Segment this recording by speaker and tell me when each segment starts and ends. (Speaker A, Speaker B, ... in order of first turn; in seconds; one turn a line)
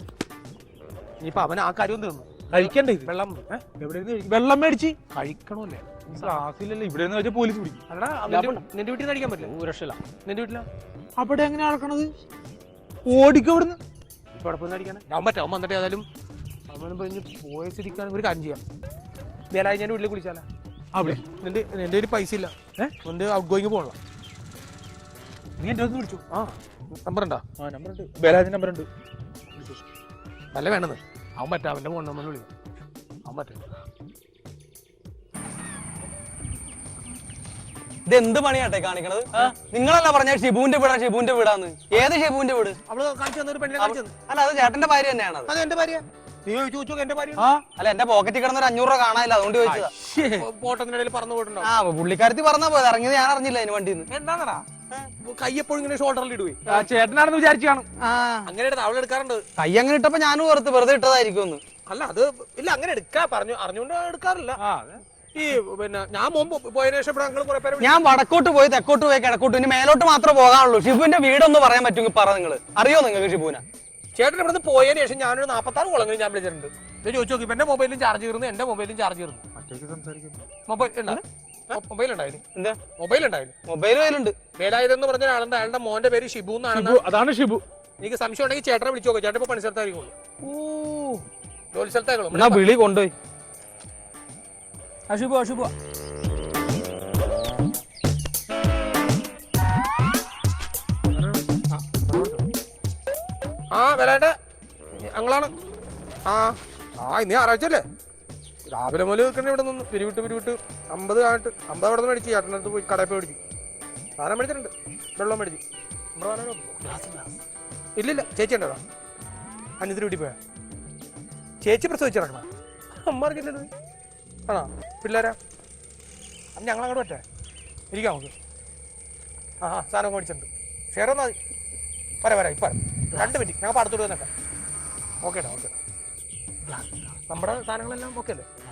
Speaker A: 1.2-3.5
Speaker B: 2.5-5.0
Speaker A: 5.1-6.4
Speaker B: 6.1-8.6
Speaker A: 7.9-9.5
Speaker B: 9.4-10.0
Speaker A: 10.2-10.7
Speaker B: 11.2-12.1
Speaker B: 13.1-13.8
Speaker A: 14.3-16.0
Speaker A: 16.7-18.6
Speaker A: 19.5-20.4
Speaker B: 20.9-21.2
Speaker A: 21.4-23.9
Speaker B: 25.6-26.2
Speaker A: 26.3-27.4
Speaker B: 27.6-28.9
Speaker A: 30.5-32.5
Speaker A: 33.2-33.6
Speaker C: 38.0-42.8
Speaker A: 42.9-44.1
Speaker C: 43.8-45.5
Speaker A: 45.5-47.4
Speaker B: 47.4-47.6
Speaker C: 47.7-49.9
Speaker B: 49.6-50.4
Speaker A: 50.4-51.7
Speaker C: 51.6-54.1
Speaker A: 54.1-54.6
Speaker A: 55.2-56.8
Speaker B: 56.7-57.9
Speaker C: 58.0-58.5
Speaker A: 58.5-59.4
Speaker C: 59.6-61.6
Speaker A: 61.9-64.6
Speaker B: 64.6-65.0
Speaker A: 65.3-68.0
Speaker C: 67.8-73.6
Speaker A: 74.2-79.5
Speaker B: 79.6-80.4
Speaker A: 80.7-81.2
Speaker A: 81.7-82.4
Speaker A: 83.0-83.5
Speaker C: 83.7-84.3
Speaker A: 84.5-87.0
Speaker B: 86.7-87.6
Speaker A: 88.0-90.1
Speaker B: 90.4-91.2
Speaker A: 91.7-92.6
Speaker B: 92.3-93.1
Speaker B: 95.1-95.7
Speaker A: 101.1-101.5
Speaker B: 101.7-102.0
Speaker A: 103.7-104.3
Speaker A: 105.0-105.5
Speaker A: 106.3-107.8
Speaker A: 108.7-113.4
Speaker A: 114.2-115.6
Speaker A: 116.2-116.9
Speaker B: 116.8-117.3
Speaker A: 118.0-118.8
Speaker A: 119.8-120.4
Speaker A: 121.6-122.5
Speaker A: 123.0-123.7
Speaker A: 124.5-125.3
Speaker A: 126.6-127.2
Speaker A: 127.9-128.3
Speaker A: 129.6-131.3
Speaker A: 132.2-134.3
Speaker A: 135.2-135.8
Speaker B: 136.7-137.0
Speaker A: 137.3-138.4